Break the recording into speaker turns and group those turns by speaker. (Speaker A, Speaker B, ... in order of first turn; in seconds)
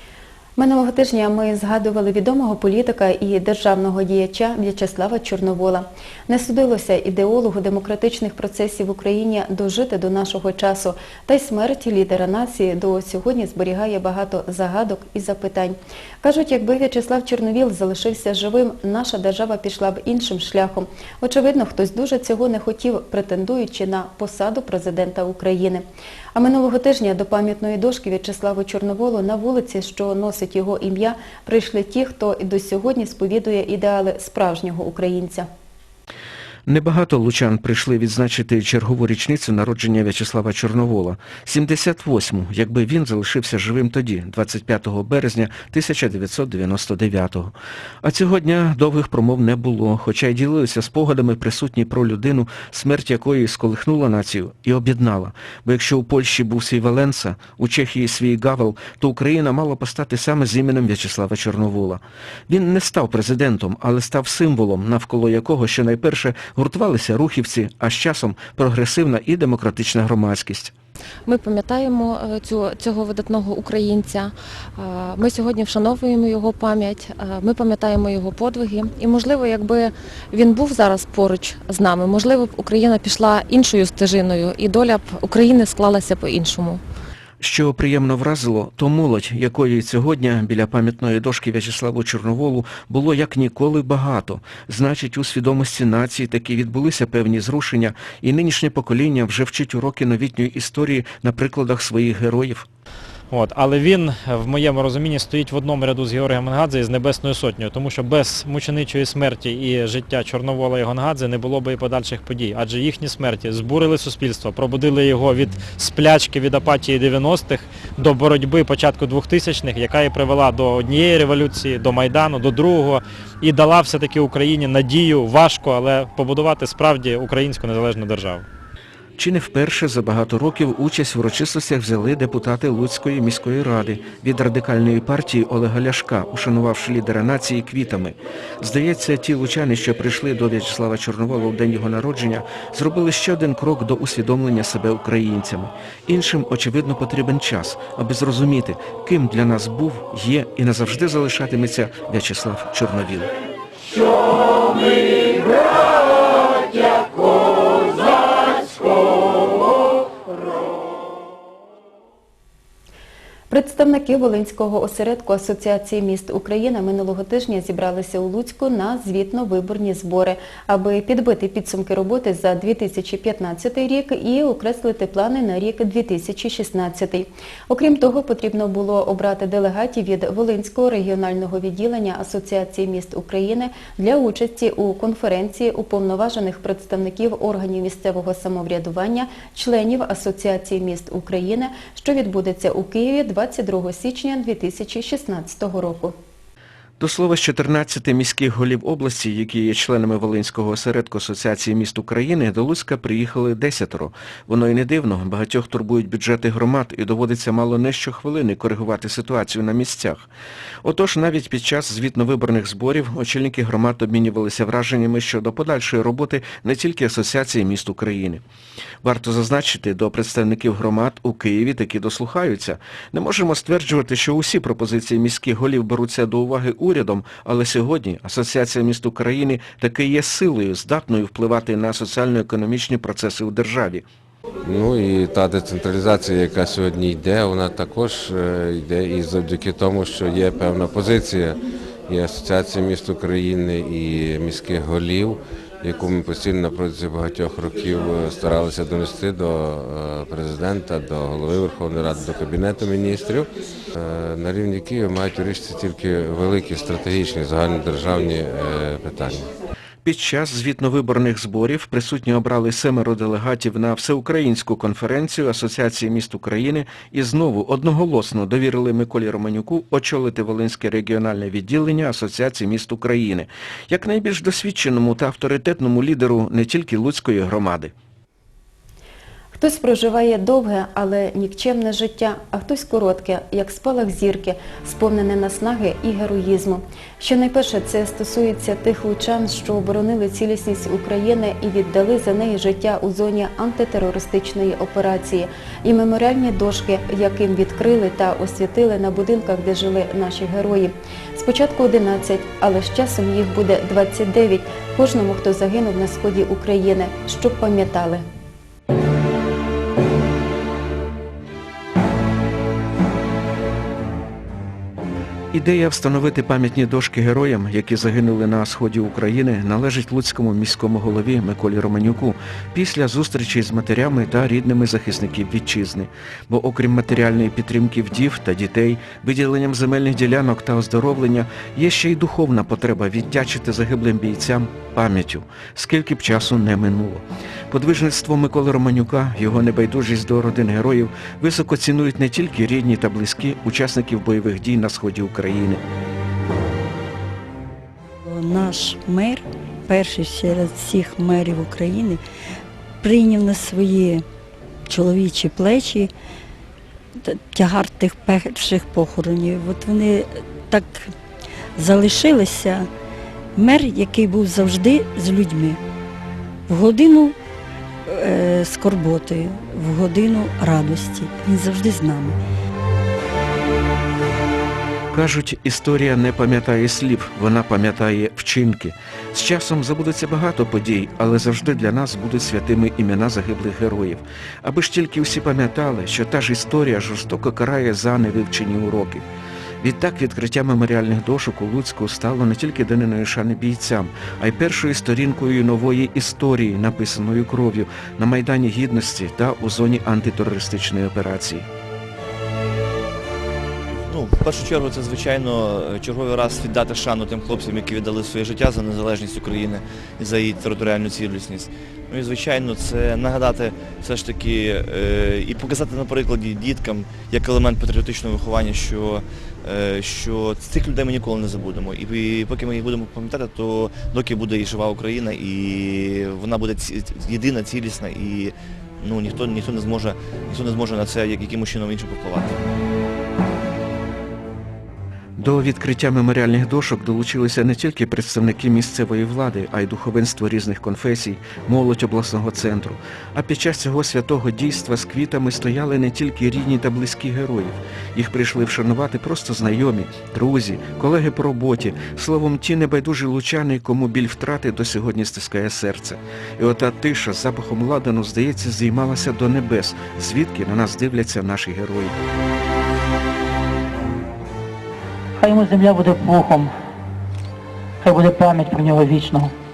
Speaker A: 0.6-25.8, 26.3-35.5, 163.5-196.1, 279.6-308.2
Speaker B: 36.7-70.7, 87.4-102.7, 129.2-153.3, 197.0-210.3, 210.8-218.4, 219.0-234.1, 260.0-277.9, 315.5-345.8, 375.1-389.2, 389.8-401.7, 435.4-462.2
Speaker C: 71.3-86.8
Speaker D: 103.3-128.5
Speaker E: 234.6-259.5
Speaker F: 348.2-352.2, 353.0-354.2, 354.9-356.1, 357.3-361.1, 361.8-362.9, 363.6-365.8, 366.7-367.4, 368.1-372.4
Speaker G: 404.1-428.5, 429.1-432.5
Speaker H: 465.4-466.7, 468.0-469.5